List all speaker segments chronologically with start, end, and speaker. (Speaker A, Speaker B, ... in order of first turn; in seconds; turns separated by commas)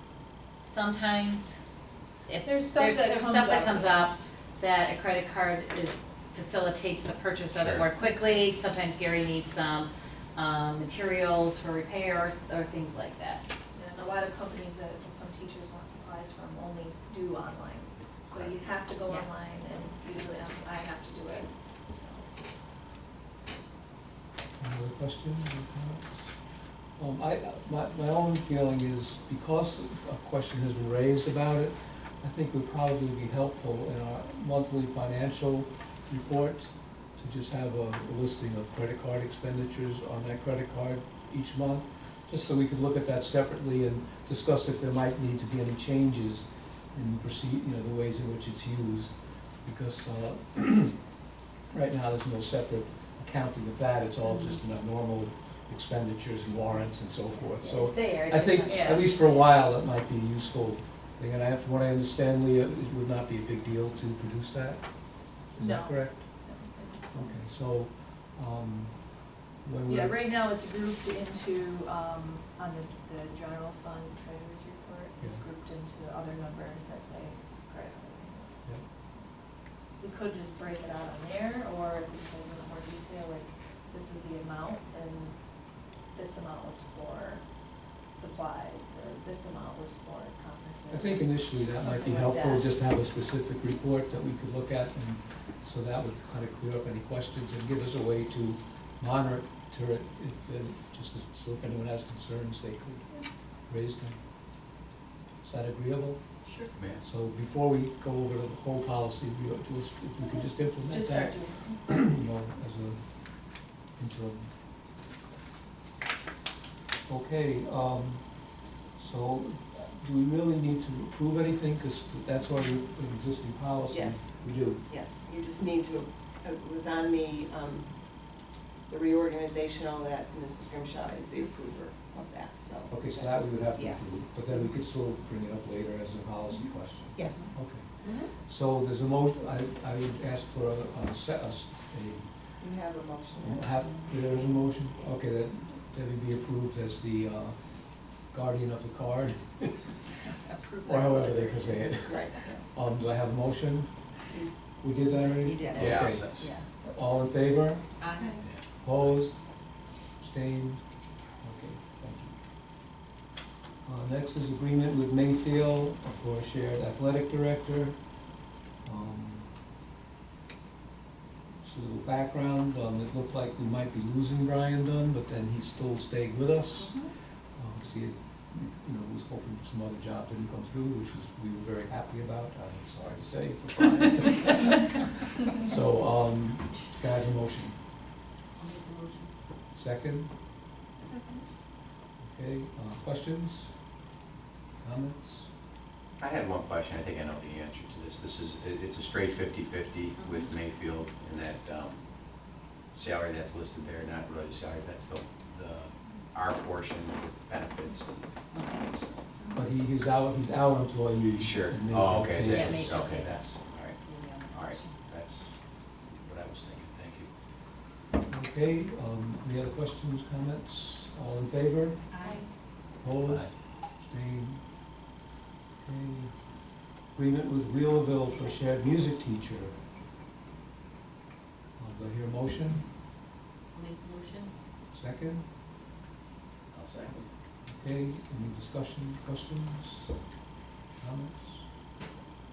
Speaker A: 0.6-1.6, Speaker A: 2.3-13.4, Speaker B: 2.5-4.1, Speaker C: 7.5-7.9, Speaker B: 13.7-22.3, Speaker C: 18.3-18.6, Speaker D: 24.6-51.1, Speaker D: 51.7-70.2, Speaker A: 54.3-54.5, Speaker A: 57.5-59.1, Speaker B: 58.6-59.1, Speaker B: 65.6-67.3, Speaker B: 69.9-92.6, Speaker D: 75.2-75.4, Speaker D: 90.9-104.2, Speaker D: 105.4-114.5, Speaker C: 106.7-107.0, Speaker B: 110.2-111.8, Speaker D: 117.0-124.9, Speaker E: 123.9-134.7, Speaker D: 132.9-142.7, Speaker E: 137.1-138.3, Speaker E: 142.6-143.7, Speaker D: 143.4-150.0, Speaker B: 150.6-151.7, Speaker D: 150.8-154.2, Speaker E: 152.0-152.8, Speaker D: 154.8-162.4, Speaker E: 155.4-156.3, Speaker C: 155.8-156.6, Speaker A: 156.4-156.6, Speaker A: 158.0-158.4, Speaker B: 158.2-158.4, Speaker C: 158.4-159.2, Speaker D: 163.8-168.2, Speaker D: 168.8-169.5, Speaker D: 171.6-187.8, Speaker A: 188.6-189.3, Speaker D: 189.7-190.3, Speaker E: 191.1-191.4, Speaker D: 192.2-193.8, Speaker D: 194.8-195.5, Speaker C: 196.2-209.2, Speaker A: 200.2-200.5, Speaker A: 208.5-208.9, Speaker D: 209.5-212.9, Speaker C: 211.2-217.3, Speaker A: 212.5-213.4, Speaker A: 214.0-214.9, Speaker D: 218.3-222.3, Speaker A: 222.1-222.5, Speaker B: 222.2-222.5, Speaker D: 223.0-224.7, Speaker C: 223.2-223.5, Speaker D: 225.8-226.5, Speaker D: 227.1-229.8, Speaker D: 231.8-232.9, Speaker A: 233.7-234.5, Speaker D: 234.9-235.5, Speaker C: 236.7-237.3, Speaker D: 237.7-240.2, Speaker D: 241.0-241.7